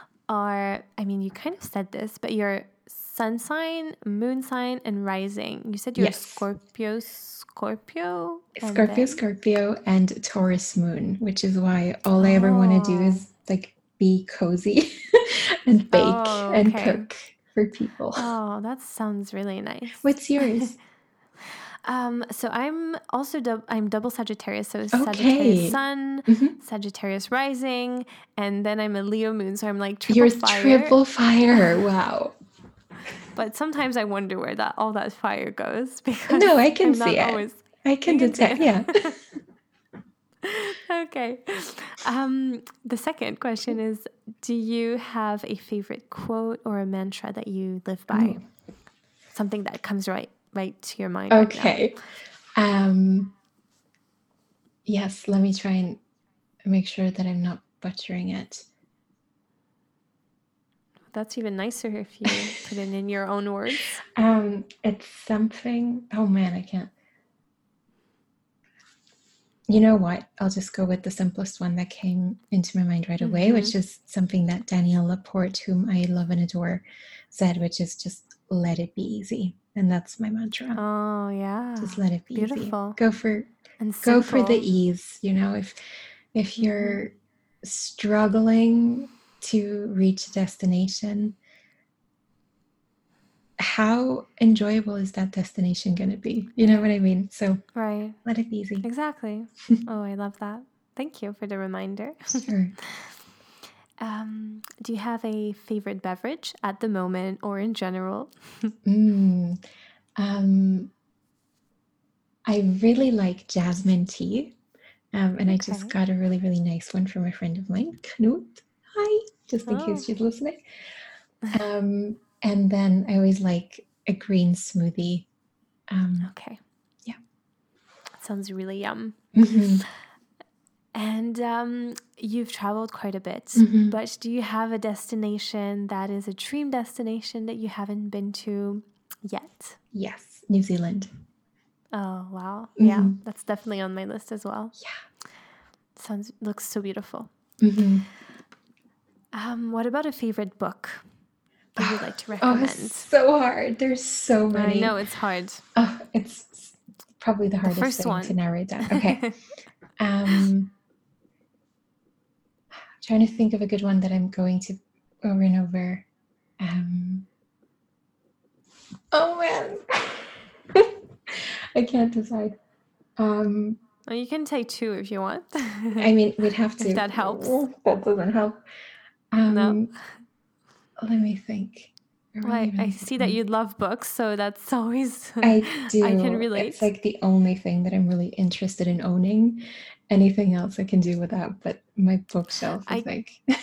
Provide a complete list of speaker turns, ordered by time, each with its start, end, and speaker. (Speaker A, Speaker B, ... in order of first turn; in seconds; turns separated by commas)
Speaker A: 0.3-9.2, Speaker B: 6.0-6.5, Speaker B: 8.6-18.3, Speaker A: 12.2-13.2, Speaker A: 15.9-17.1, Speaker A: 18.2-20.7, Speaker B: 20.0-20.8, Speaker A: 21.9-31.0, Speaker B: 24.9-26.6, Speaker B: 30.1-32.4, Speaker A: 31.5-31.8, Speaker A: 33.4-39.2, Speaker B: 36.3-39.0, Speaker A: 40.4-48.4, Speaker B: 48.1-48.4, Speaker A: 49.3-51.8, Speaker B: 51.3-52.0, Speaker B: 52.6-53.3, Speaker B: 54.9-56.0, Speaker B: 56.7-58.6, Speaker A: 61.1-64.0, Speaker B: 62.3-62.6, Speaker B: 64.2-66.9, Speaker B: 69.7-80.8, Speaker A: 73.2-73.8, Speaker A: 80.8-83.0, Speaker B: 81.8-83.5, Speaker A: 83.8-84.6, Speaker B: 84.0-85.8, Speaker B: 86.3-91.4, Speaker A: 86.6-87.0, Speaker B: 93.6-97.6, Speaker A: 97.8-98.2, Speaker B: 98.2-98.9, Speaker A: 98.8-103.0, Speaker B: 102.3-102.7, Speaker A: 104.0-108.8, Speaker B: 108.8-109.6, Speaker B: 110.2-110.9, Speaker B: 112.5-114.6, Speaker B: 115.1-120.7, Speaker A: 115.5-116.0, Speaker A: 119.7-120.1, Speaker B: 121.5-125.3, Speaker B: 125.9-126.3, Speaker A: 126.2-126.6, Speaker A: 128.2-129.2, Speaker B: 129.3-129.8, Speaker A: 130.9-139.8, Speaker B: 133.6-134.0, Speaker B: 139.9-141.1, Speaker A: 141.9-144.8, Speaker B: 142.8-143.2, Speaker A: 146.0-147.3, Speaker B: 147.6-148.1, Speaker A: 149.3-151.1, Speaker A: 151.8-153.1, Speaker B: 151.8-154.9, Speaker A: 154.5-155.6, Speaker B: 155.8-159.2, Speaker A: 157.6-159.3, Speaker B: 160.0-160.7, Speaker B: 162.9-166.1, Speaker B: 166.6-167.3, Speaker B: 169.1-172.6, Speaker B: 173.2-173.8, Speaker A: 174.1-176.1, Speaker B: 176.0-178.6, Speaker A: 176.8-177.6, Speaker B: 179.3-179.9, Speaker A: 179.5-179.8, Speaker B: 181.0-183.4, Speaker A: 182.4-186.9, Speaker B: 185.4-193.5